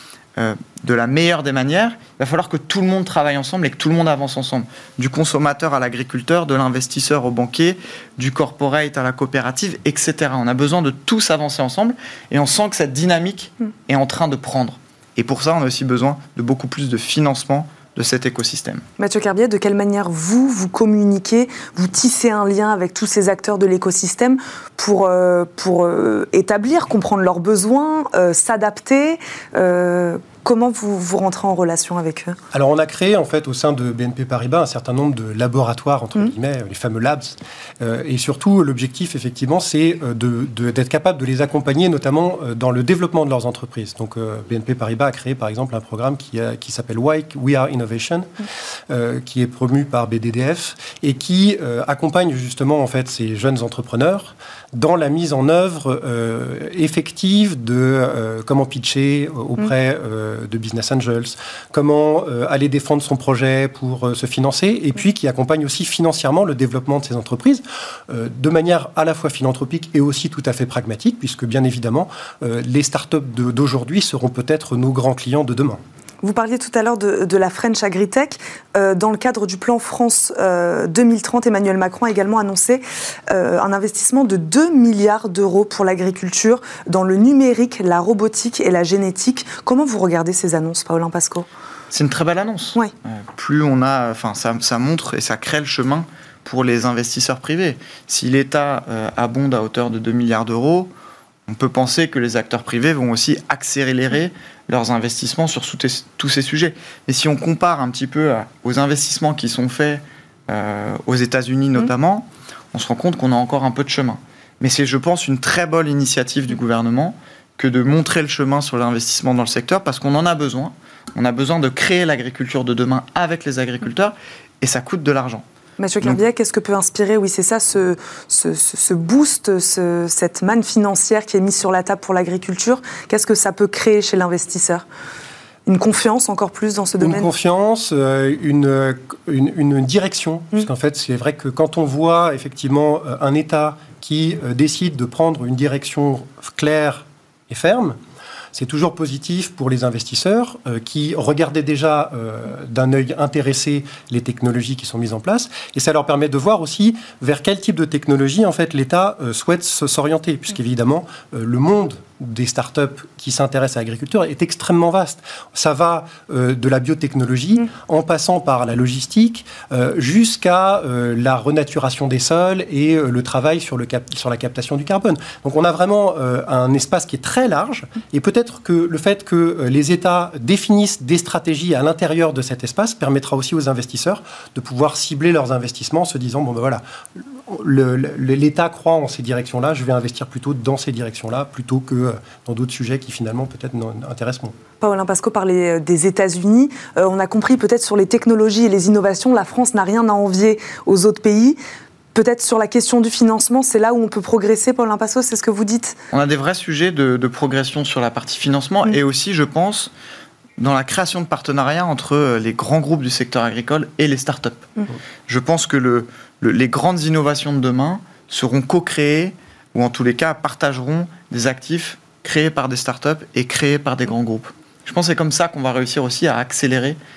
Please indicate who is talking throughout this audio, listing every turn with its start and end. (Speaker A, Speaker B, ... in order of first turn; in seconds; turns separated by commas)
Speaker A: 0.4-18.8, Speaker B: 19.0-32.4, Speaker C: 32.5-75.8, Speaker B: 76.2-91.5, Speaker A: 91.9-100.9, Speaker A: 101.5-125.4, Speaker B: 125.8-134.8, Speaker B: 135.7-137.3, Speaker C: 137.0-148.0, Speaker C: 148.5-194.6, Speaker B: 194.8-201.6, Speaker B: 202.1-206.0, Speaker A: 206.1-209.9, Speaker A: 210.6-214.7, Speaker A: 215.3-227.0